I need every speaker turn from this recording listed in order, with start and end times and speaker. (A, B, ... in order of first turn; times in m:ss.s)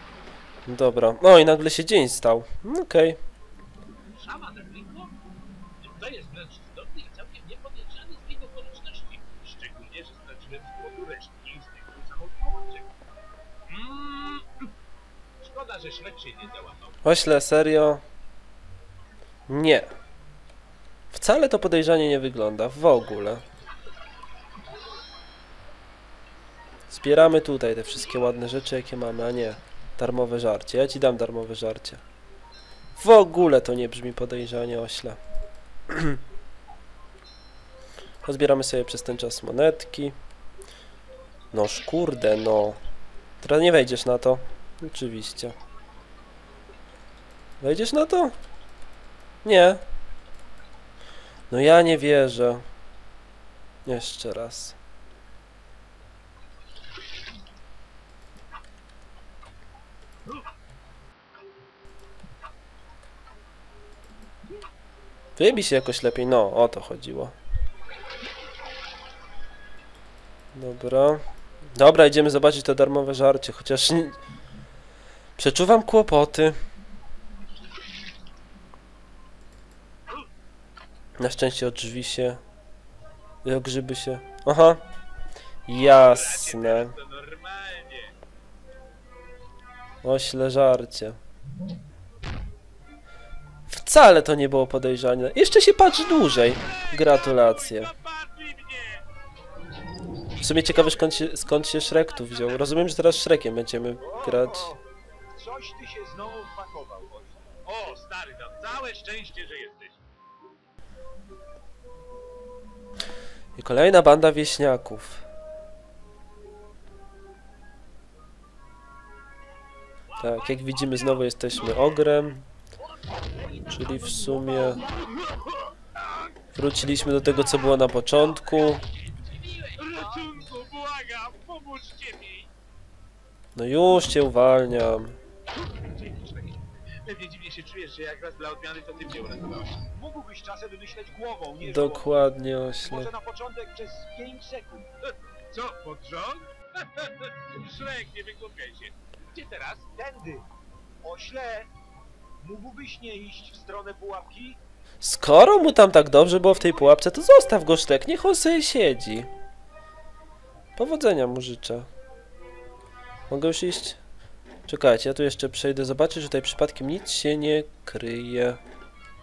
0:00.6-0:03.2 A
0:04.1-0:05.2 B
0:05.8-0:12.9 B
0:13.7-0:14.7 B
0:15.4-0:17.0 B
0:17.0-0:18.0 A
0:19.5-0:19.9 A
0:21.1-0:23.4 A
0:26.9-0:32.0 A
0:33.0-0:35.2 A
0:35.9-0:36.2 A
0:38.2-0:40.2 A
0:41.5-0:42.8 A
0:43.4-0:45.5 A
0:47.6-0:48.4 A
0:49.4-0:49.8 A
0:51.5-0:52.6 A
0:53.8-0:54.8 A
1:05.4-1:07.4 A
1:10.5-1:14.2 A
1:15.4-1:16.6 A
1:21.2-1:22.4 A
1:23.4-1:24.8 A
1:25.6-1:26.9 A
1:25.7-1:28.1 B
1:30.0-1:31.2 A
1:33.7-1:37.9 A
1:36.8-1:39.0 B
1:40.4-1:44.7 A
1:42.0-1:42.7 B
1:44.0-1:47.5 C
1:47.6-1:50.0 B
1:53.6-1:55.2 A
2:00.1-2:01.2 B
2:00.2-2:02.5 A
2:03.3-2:03.7 C
2:03.7-2:04.8 A
2:06.5-2:08.8 A
2:08.4-2:12.5 B
2:13.5-2:15.2 A
2:15.6-2:19.8 B
2:19.9-2:22.2 C
2:21.6-2:23.1 A
2:22.8-2:24.9 C
2:25.5-2:29.8 B
2:29.9-2:30.5 C
2:31.0-2:31.7 C
2:32.4-2:34.6 C
2:35.0-2:39.3 A
2:40.8-2:41.9 A
2:43.3-2:44.0 A
2:44.7-2:48.6 A